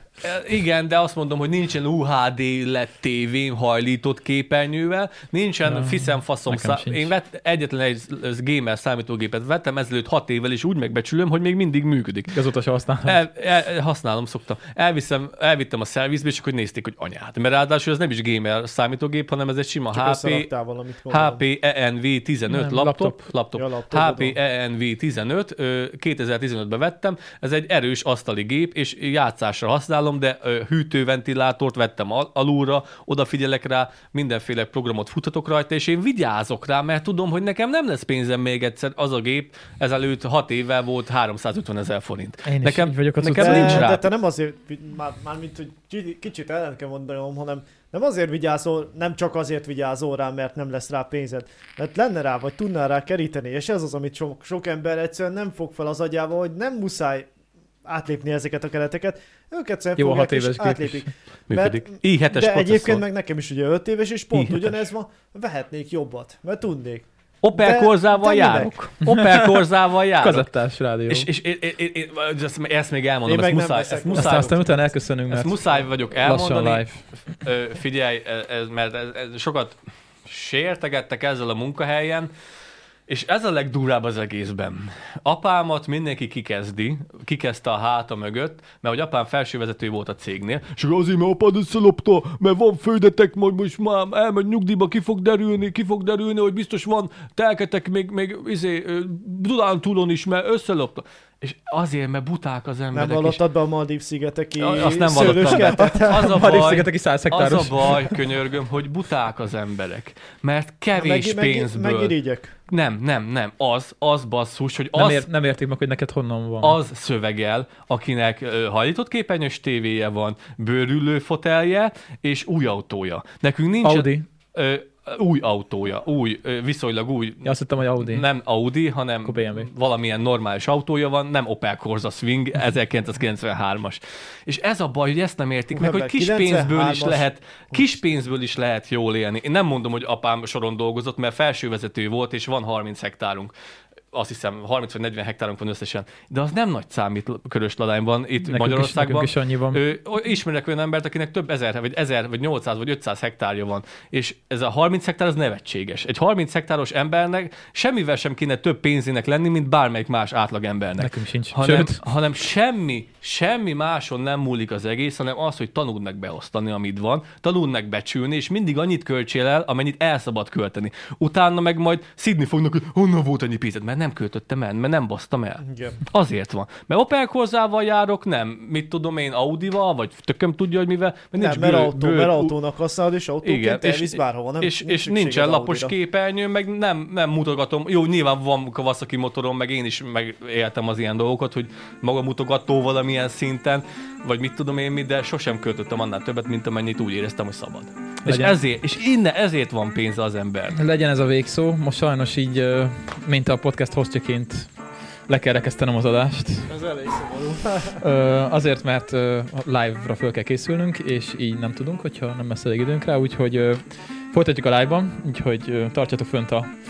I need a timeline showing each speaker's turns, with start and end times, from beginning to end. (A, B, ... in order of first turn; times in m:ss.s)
0:00.2-0:12.4 A
0:05.7-0:07.1 B
0:12.3-0:13.2 B
0:13.0-0:20.5 A
0:19.9-0:21.4 C
0:21.1-0:44.1 A
0:22.5-0:23.2 B
0:23.5-0:24.4 C
0:42.4-0:43.9 B
0:43.4-0:57.3 C
0:57.8-1:08.7 C
1:00.0-1:01.1 B
1:01.5-1:03.0 A
1:04.3-1:04.8 A
1:07.4-1:10.5 A
1:09.1-1:09.7 B
1:10.2-1:11.3 B
1:11.1-1:14.6 A
1:13.3-1:14.8 C
1:14.1-1:17.0 B
1:15.3-1:22.3 A
1:23.1-1:43.4 A
1:42.9-1:46.3 C
1:44.6-1:52.1 A
1:45.2-1:48.1 B
1:51.0-1:52.6 C
1:52.7-1:55.3 A
1:55.0-1:56.8 B
1:56.6-2:23.5 A
2:03.8-2:04.2 B
2:07.4-2:08.2 B
2:09.2-2:09.7 B
2:15.7-2:18.0 C
2:24.1-3:02.5 A
2:28.4-2:29.8 B
2:41.0-2:42.0 B
2:55.6-2:56.0 C
3:01.4-3:05.9 C
3:03.4-3:20.8 A
3:18.3-3:18.6 B
3:20.7-3:24.7 B
3:25.3-3:26.7 B
3:26.7-3:28.0 C
3:28.0-3:36.7 B